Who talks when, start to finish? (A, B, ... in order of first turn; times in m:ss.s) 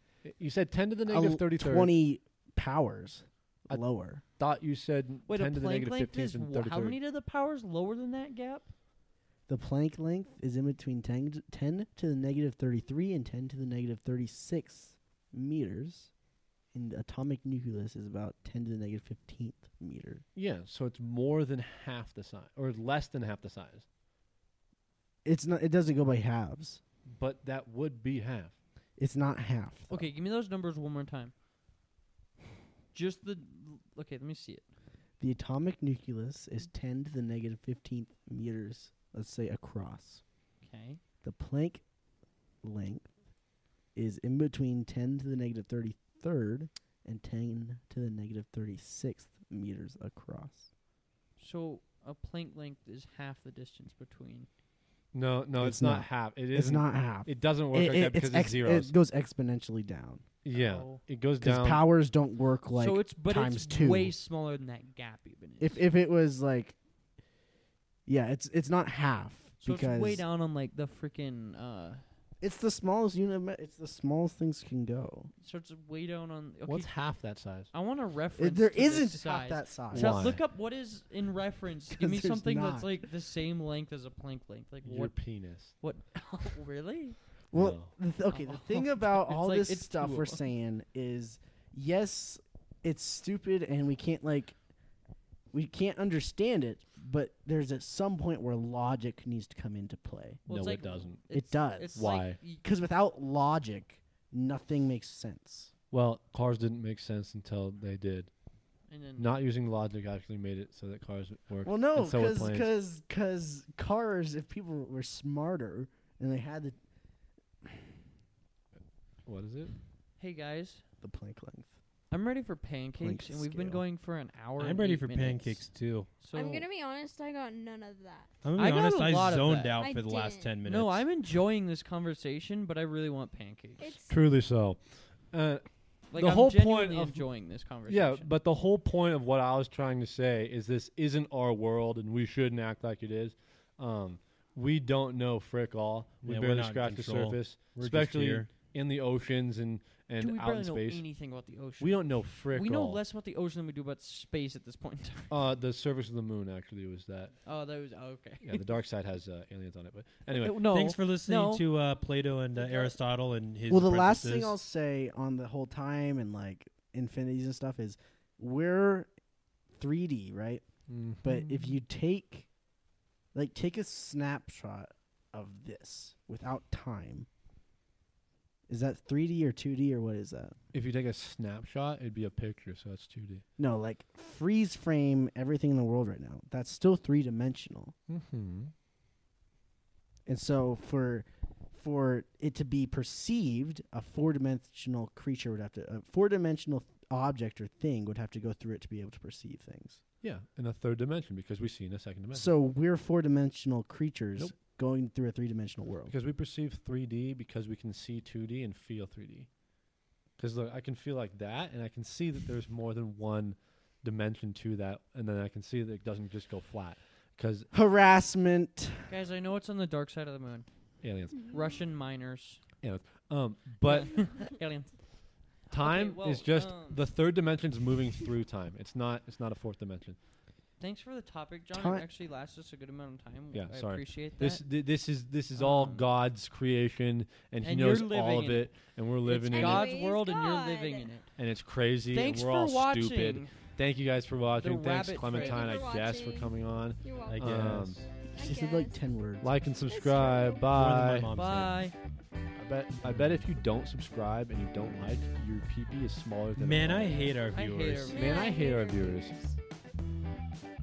0:00.2-0:01.9 A
0:01.1-0:04.2 B
0:04.4-0:07.0 A
0:05.3-0:08.7 C
0:09.5-0:16.1 B
0:16.7-0:20.2 B
0:20.3-0:23.8 A
0:25.2-0:26.8 B
0:27.1-0:28.6 A
0:29.0-0:30.0 B
0:29.9-0:31.3 C
0:32.9-0:34.6 C
0:35.2-0:40.2 B
0:40.6-0:41.0 C
0:41.2-0:41.8 B
0:42.6-0:43.1 B
0:43.9-0:50.7 B
0:51.4-0:54.5 C
0:55.1-0:58.9 A
0:55.6-1:00.2 B
1:00.4-1:01.8 A
1:00.5-1:01.0 C
1:01.4-1:04.1 B
1:02.7-1:05.8 C
1:05.6-1:06.7 B
1:08.0-1:10.2 B
1:09.6-1:12.0 C
1:12.4-1:15.3 B
1:15.4-1:17.0 C
1:16.7-1:17.7 A
1:17.7-1:27.2 C
1:18.4-1:20.2 B
1:19.9-1:20.4 A
1:21.9-1:23.0 B
1:24.8-1:25.7 A
1:27.5-1:34.6 B
1:27.5-1:27.9 A
1:28.3-1:30.4 C
1:35.5-1:40.4 B
1:40.4-1:42.6 C
1:40.5-1:41.2 A
1:41.3-1:45.7 B
1:41.9-1:42.4 A
1:45.9-1:48.3 A
1:48.9-1:49.4 C
1:49.2-1:52.7 A
1:51.6-1:56.8 B
1:59.2-1:59.7 A
2:00.2-2:00.8 C
2:01.0-2:01.7 B
2:02.1-2:06.7 C
2:03.0-2:03.8 B
2:04.6-2:06.1 D
2:06.3-2:08.3 E
2:08.4-2:11.0 D
2:08.6-2:09.9 C
2:09.8-2:10.6 E
2:10.6-2:14.0 C
2:13.8-2:14.1 E
2:14.1-2:17.2 A
2:16.1-2:18.3 C
2:17.8-2:31.0 A
2:26.2-2:28.5 D
2:30.2-2:35.4 C
2:31.8-2:33.0 A
2:35.3-2:37.4 A
2:37.4-2:38.6 C
2:38.4-2:40.6 A
2:40.4-2:41.7 C
2:40.6-2:44.6 D
2:42.5-2:43.0 C
2:43.7-2:49.1 B
2:49.7-2:50.6 B
2:50.9-2:51.7 A
2:51.2-2:52.5 B
2:53.3-2:57.3 B
2:58.7-3:00.6 B
3:00.7-3:03.4 A
3:03.6-3:07.9 B
3:08.1-3:08.7 A
3:10.2-3:20.0 B
3:20.2-3:22.5 A
3:22.3-3:26.1 B
3:26.1-3:29.5 A
3:30.4-3:37.7 A
3:37.7-3:39.1 B
3:39.1-3:40.7 C
3:41.0-3:41.6 A
3:41.4-3:41.6 E
3:41.5-3:42.6 C
3:42.8-3:44.3 A
3:43.8-3:45.1 C
3:45.6-3:47.0 C
3:45.7-3:50.2 A
3:50.8-3:54.6 C
3:51.7-3:52.0 B
3:53.5-4:00.0 A
3:55.5-3:56.1 C
3:57.6-4:01.3 C
3:59.5-4:01.1 E
4:01.4-4:08.0 A
4:02.1-4:03.7 C
4:04.6-4:05.9 C
4:05.2-4:07.6 E
4:07.2-4:08.1 D
4:08.3-4:09.0 E
4:08.4-4:09.5 B
4:09.4-4:11.3 A
4:09.9-4:10.7 E
4:10.6-4:11.8 D
4:11.3-4:11.9 C
4:12.6-4:17.3 A
4:16.6-4:18.2 D
4:17.3-4:18.5 C
4:18.1-4:19.3 A
4:18.1-4:19.6 E